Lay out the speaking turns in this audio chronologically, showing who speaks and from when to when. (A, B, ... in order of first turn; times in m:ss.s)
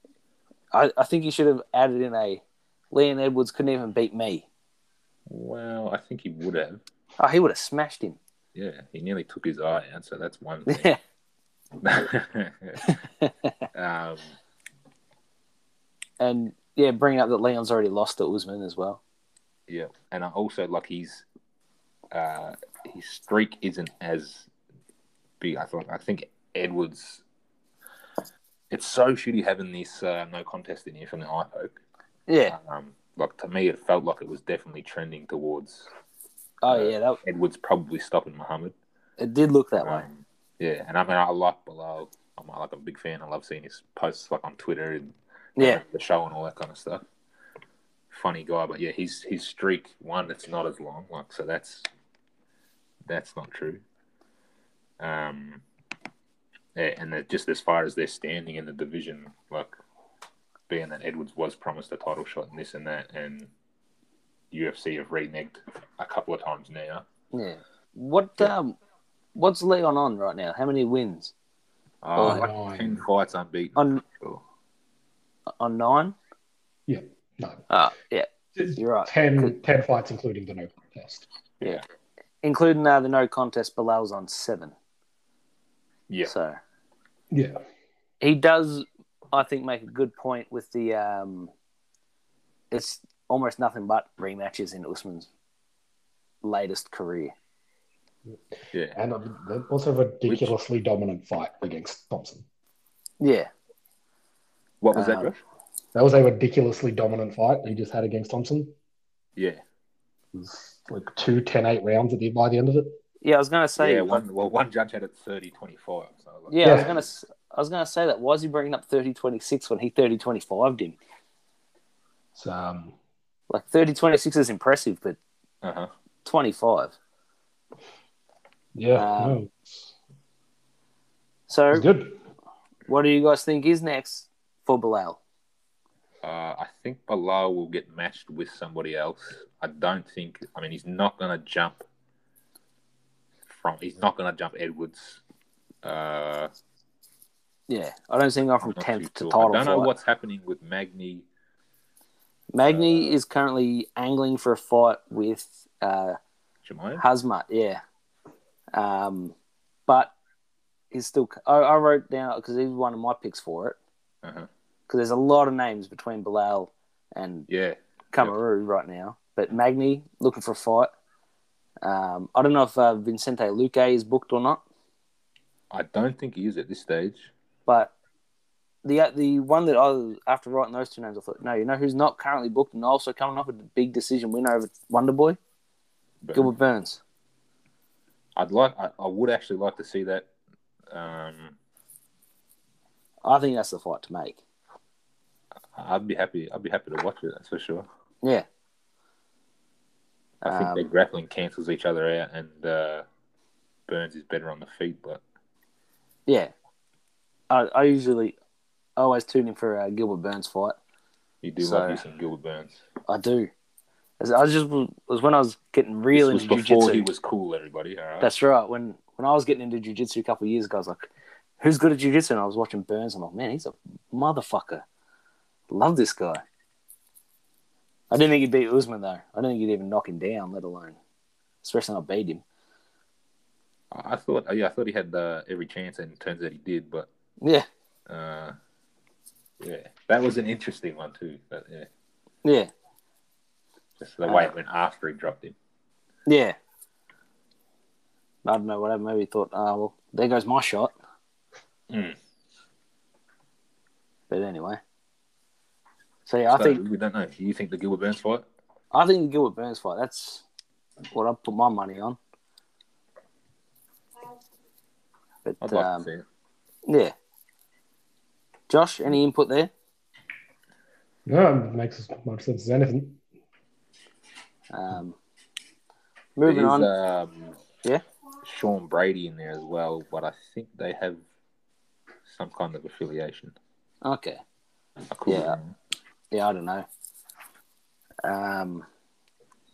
0:00.7-0:04.5 A
0:05.3-0:06.8 B
0:07.2-0:08.2 A
0:08.6-0:10.9 B
0:10.7-0:11.0 A
0:11.8-0:12.9 B
0:12.8-0:13.5 A
0:13.7-0:14.3 B
0:16.2-0:19.0 A
0:19.7-0:21.2 B
0:22.1-0:24.5 B
0:25.4-0:27.2 B
0:28.7-0:31.8 B
0:32.3-0:32.6 A
0:32.5-0:35.9 B
0:36.6-0:37.2 A
0:36.7-0:38.8 B
0:39.2-0:40.1 A
0:39.8-0:47.1 B
0:45.6-0:45.8 A
0:48.1-0:51.9 B
0:53.1-0:53.8 B
0:55.0-0:55.6 B
0:56.8-0:59.8 B
1:00.7-1:03.5 B
1:04.5-1:07.0 B
1:07.3-1:08.8 A
1:09.4-1:11.3 A
1:12.0-1:14.4 B
1:12.2-1:12.5 A
1:12.2-1:13.0 C
1:13.8-1:14.0 A
1:15.6-1:16.2 A
1:16.9-1:17.6 C
1:17.7-1:19.5 A
1:18.6-1:21.3 C
1:22.4-1:24.7 A
1:26.2-1:26.6 A
1:27.3-1:27.6 C
1:28.2-1:31.5 A
1:32.7-1:35.3 A
1:36.4-1:37.3 A
1:39.0-1:42.4 C
1:40.3-1:40.5 B
1:43.2-1:43.5 A
1:44.8-1:45.4 B
1:44.9-1:45.3 A
1:45.9-1:48.7 C
1:49.4-1:49.6 B
1:50.3-1:53.0 C
1:53.2-1:54.2 A
1:53.8-1:56.9 B
1:56.5-2:01.0 A
1:56.6-1:56.9 C
2:02.4-2:03.0 C
2:03.5-2:05.2 A
2:05.6-2:05.9 B
2:06.2-2:07.0 A
2:08.8-2:09.9 C
2:09.0-2:09.4 A
2:11.5-2:11.9 A
2:11.7-2:12.2 C
2:12.9-2:15.2 A
2:16.2-2:21.8 B
2:23.5-2:25.2 B
2:25.8-2:26.5 B
2:27.7-2:29.9 A
2:28.6-2:31.3 B
2:32.5-2:36.2 A
2:36.6-2:37.0 B
2:37.0-2:37.8 A
2:38.8-2:39.4 A
2:39.9-2:40.1 A
2:40.9-2:43.8 A
2:44.2-2:44.5 B
2:44.9-2:47.5 A
2:47.5-2:48.3 B
2:48.1-2:50.9 A
2:51.8-2:54.6 A
2:55.7-2:57.3 B
2:57.7-2:57.9 A
2:58.8-3:05.4 A
3:06.2-3:06.5 B
3:06.4-3:07.0 A
3:08.4-3:10.3 B
3:10.9-3:11.6 B
3:13.2-3:14.4 A
3:15.8-3:17.9 B
3:20.4-3:20.8 A
3:20.5-3:23.1 B
3:23.9-3:25.2 B
3:26.3-3:26.5 A
3:27.5-3:28.4 A
3:29.0-3:30.8 A
3:31.4-3:32.8 B
3:31.6-3:32.0 A
3:33.1-3:33.5 A
3:34.2-3:37.1 A
3:36.1-3:38.3 B
3:38.2-3:44.8 A
3:45.7-3:46.4 A
3:48.1-3:51.0 A
3:51.6-3:52.4 A
3:53.9-3:57.1 B
3:57.4-3:57.7 A
3:58.1-3:58.6 B
3:59.6-4:01.9 B
4:02.4-4:02.7 A
4:04.0-4:05.6 B
4:04.3-4:04.5 A
4:06.3-4:06.6 A
4:08.4-4:10.9 A
4:11.9-4:12.2 B
4:14.3-4:14.8 A
4:16.3-4:16.8 A
4:16.5-4:18.5 B
4:18.9-4:20.4 A
4:21.1-4:22.2 A
4:25.4-4:26.1 A
4:25.6-4:26.2 B
4:26.9-4:27.1 A
4:28.7-4:29.7 A
4:31.3-4:33.2 C
4:34.7-4:35.2 A
4:36.4-4:36.9 A
4:36.5-4:37.6 B
4:38.4-4:41.2 B
4:42.3-4:43.6 B
4:44.0-4:44.4 A
4:45.1-4:45.7 B
4:45.3-4:45.6 A
4:46.3-4:46.9 A
4:48.2-4:48.9 A